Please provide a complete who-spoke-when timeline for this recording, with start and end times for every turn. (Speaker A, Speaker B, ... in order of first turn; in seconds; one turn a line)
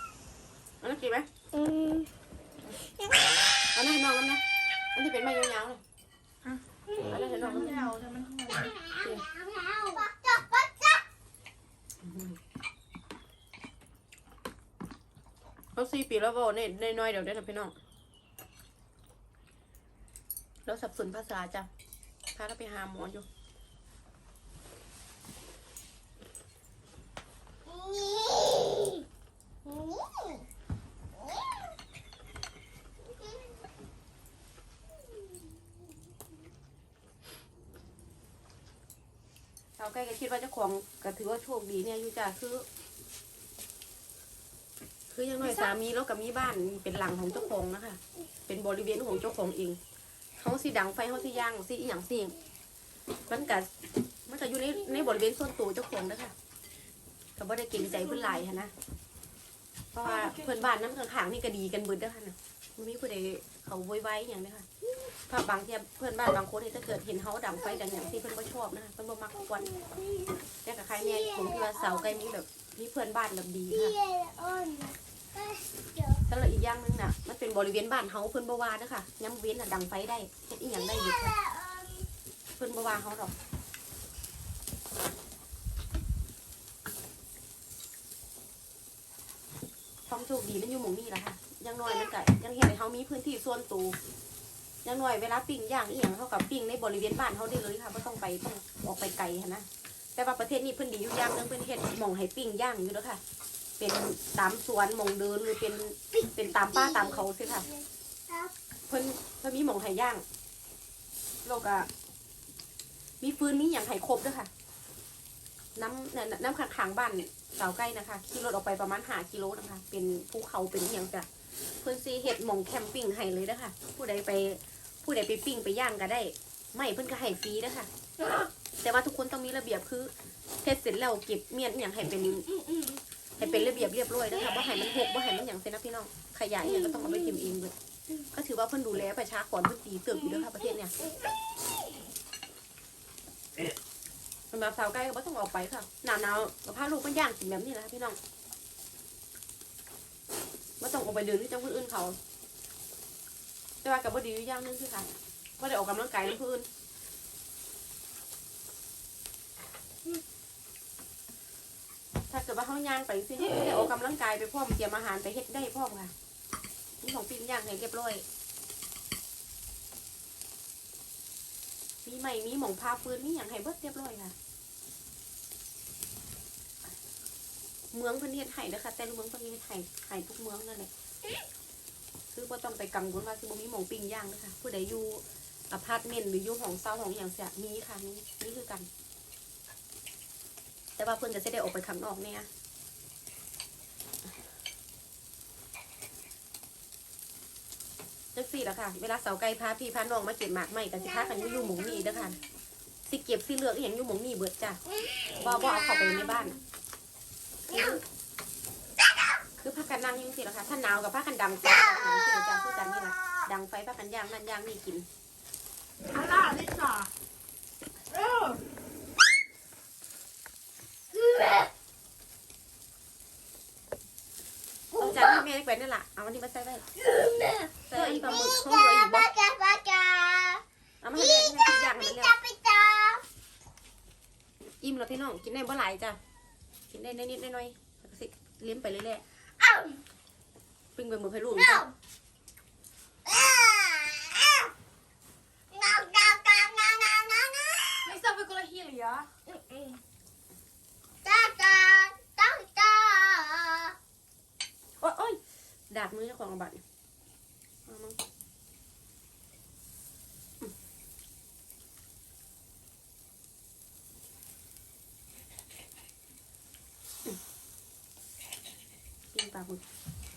Speaker A: 0.8-1.3
Speaker B: 1.5-2.1
Speaker A: 3.7-4.4
Speaker A: 4.9-5.8
Speaker B: 6.9-7.2
Speaker A: 7.0-8.0
Speaker C: 7.2-8.8
Speaker B: 8.5-11.0
Speaker A: 12.0-12.4
Speaker A: 15.8-17.8
Speaker A: 20.6-21.7
Speaker A: 22.3-23.2
Speaker B: 27.6-29.1
Speaker B: 29.6-30.4
Speaker B: 31.3-31.6
Speaker B: 33.2-33.5
Speaker A: 39.8-42.6
Speaker A: 45.1-49.8
Speaker A: 50.4-52.4
Speaker A: 53.3-53.7
Speaker A: 54.3-56.3
Speaker A: 57.4-58.7
Speaker A: 59.9-64.7
Speaker C: 60.0-60.7
Speaker A: 65.3-69.7
Speaker B: 69.5-70.4
Speaker A: 70.6-73.9
Speaker B: 70.9-72.2
Speaker B: 73.7-76.2
Speaker A: 76.3-81.3
Speaker B: 80.7-82.1
Speaker A: 82.6-83.3
Speaker A: 90.1-94.0
Speaker A: 94.8-103.2
Speaker A: 103.8-107.7
Speaker B: 106.1-108.5
Speaker A: 108.9-110.2
Speaker A: 111.4-111.9
Speaker A: 113.2-114.5
Speaker A: 115.8-121.3
Speaker A: 121.8-127.9
Speaker A: 128.8-132.5
Speaker B: 132.7-133.0
Speaker A: 133.4-137.7
Speaker B: 136.7-137.5
Speaker A: 138.3-140.9
Speaker A: 144.5-148.2
Speaker A: 150.8-152.2
Speaker A: 153.8-155.1
Speaker A: 155.6-156.7
Speaker A: 162.3-166.1
Speaker A: 167.0-168.2
Speaker A: 172.0-174.3
Speaker A: 177.9-180.9
Speaker A: 182.3-188.9
Speaker A: 191.0-192.5
Speaker A: 198.3-202.4
Speaker B: 201.2-202.3
Speaker A: 203.1-204.8
Speaker B: 205.2-206.3
Speaker A: 205.4-206.6
Speaker A: 207.7-208.0
Speaker A: 209.6-215.1
Speaker C: 216.1-217.1
Speaker C: 218.1-218.6
Speaker B: 221.1-221.7
Speaker B: 224.9-225.4
Speaker A: 225.0-226.9
Speaker B: 227.0-233.2
Speaker A: 227.9-229.3
Speaker A: 231.0-232.4
Speaker A: 234.8-236.2
Speaker A: 236.9-239.2
Speaker B: 239.6-240.0
Speaker A: 240.9-241.9
Speaker B: 241.5-241.9
Speaker B: 243.2-244.7
Speaker B: 245.7-248.1
Speaker C: 248.0-249.3
Speaker B: 249.5-250.0
Speaker B: 251.2-254.0
Speaker A: 255.0-255.4
Speaker A: 255.9-256.8
Speaker A: 257.9-258.2
Speaker A: 269.3-269.8